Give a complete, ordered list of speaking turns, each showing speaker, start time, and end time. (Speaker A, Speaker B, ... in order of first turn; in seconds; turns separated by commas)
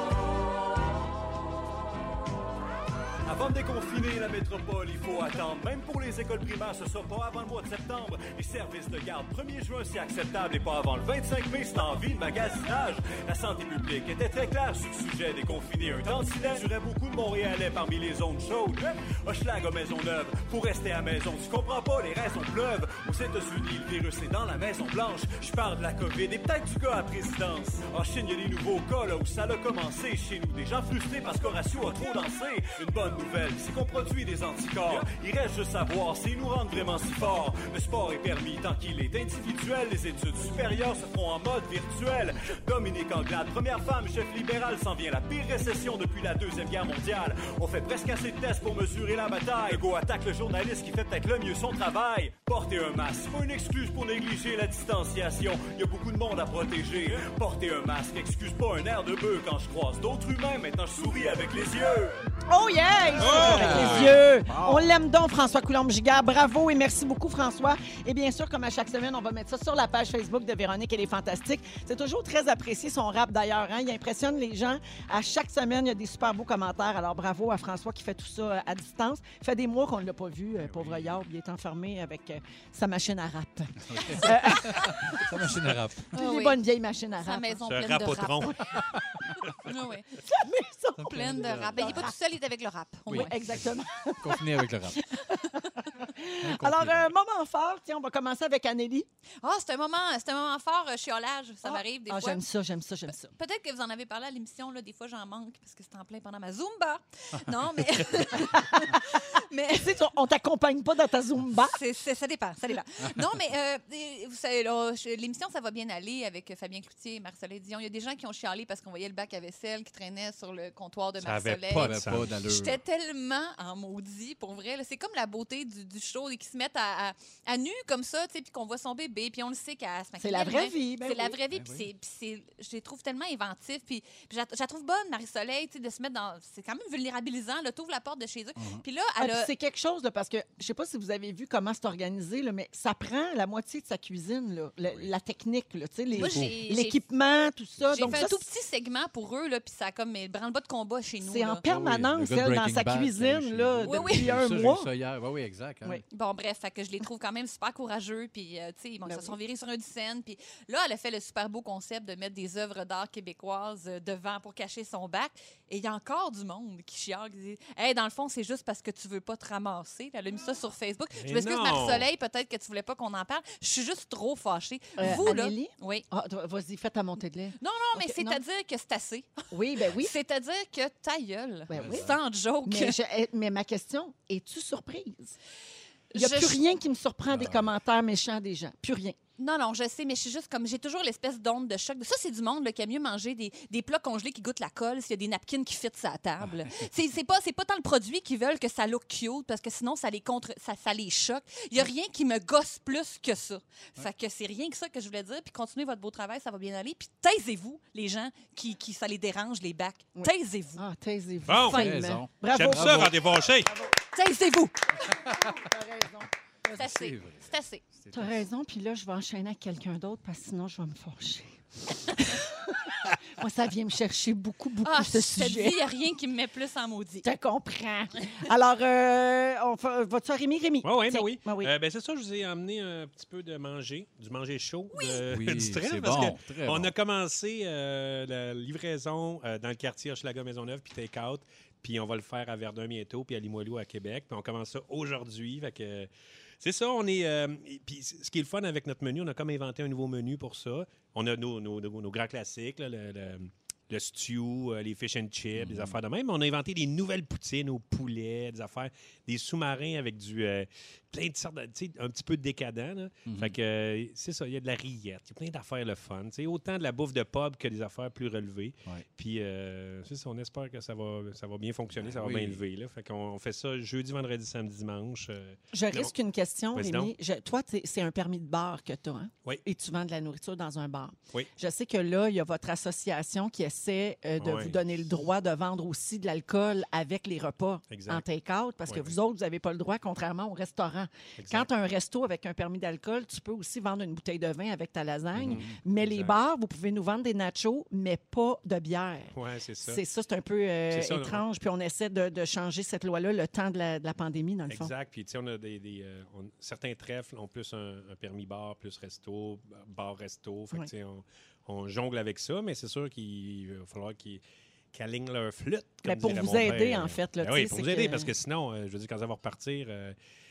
Speaker A: 3.3-62.2, Speaker B: 62.5-85.3, Speaker C: 63.2-64.2, Speaker D: 63.2-64.9, Speaker D: 80.6-81.2, Speaker D: 83.9-86.2, Speaker B: 86.1-87.6, Speaker E: 86.1-86.6, Speaker E: 87.2-88.7, Speaker C: 87.7-89.0, Speaker E: 89.6-90.2, Speaker B: 90.2-92.1, Speaker D: 91.0-92.1, Speaker E: 91.0-93.3, Speaker D: 93.1-93.7, Speaker B: 93.1-94.5, Speaker D: 94.2-95.0, Speaker B: 95.1-99.1, Speaker D: 96.4-97.1, Speaker E: 99.4-102.4, Speaker B: 101.7-103.3, Speaker E: 103.1-110.0, Speaker B: 108.2-109.2, Speaker B: 109.8-111.8, Speaker E: 111.7-139.5, Speaker C: 121.2-122.3, Speaker D: 121.7-122.8, Speaker B: 130.2-131.4, Speaker D: 131.5-131.9, Speaker D: 138.6-138.8, Speaker B: 139.2-148.4, Speaker D: 144.9-145.1, Speaker E: 146.1-147.0, Speaker D: 147.9-148.2, Speaker E: 147.9-151.6, Speaker B: 151.2-154.9, Speaker D: 151.7-156.0, Speaker E: 153.8-154.3, Speaker E: 156.1-176.1, Speaker B: 159.1-159.3, Speaker C: 171.2-172.1, Speaker B: 175.0-178.4, Speaker E: 177.6-183.0, Speaker B: 179.5-180.1, Speaker B: 181.7-185.4, Speaker D: 181.7-182.2, Speaker E: 186.1-186.6, Speaker B: 186.1-189.2, Speaker D: 187.3-187.7, Speaker E: 189.4-210.8, Speaker B: 210.2-214.0, Speaker C: 211.5-213.7, Speaker D: 211.6-213.1, Speaker E: 214.1-215.1, Speaker B: 215.0-216.8, Speaker E: 216.8-217.8, Speaker D: 216.8-218.5, Speaker B: 218.1-225.8, Speaker E: 224.8-227.3, Speaker B: 227.2-231.7, Speaker C: 230.8-246.1, Speaker E: 234.9-235.2, Speaker D: 235.3-236.9, Speaker C: 246.6-276.1, Speaker D: 255.6-256.0, Speaker D: 263.3-263.6, Speaker D: 271.9-272.6, Speaker B: 275.7-299.3, Speaker C: 276.7-277.1, Speaker C: 284.4-284.8, Speaker C: 287.9-288.2, Speaker C: 288.9-289.2, Speaker C: 291.4-291.7, Speaker D: 295.4-295.8, Speaker C: 295.4-296.4, Speaker C: 299.3-300.0, Speaker B: 299.9-304.9, Speaker C: 300.9-301.4, Speaker C: 304.7-314.4, Speaker C: 314.9-320.2, Speaker B: 316.1-318.3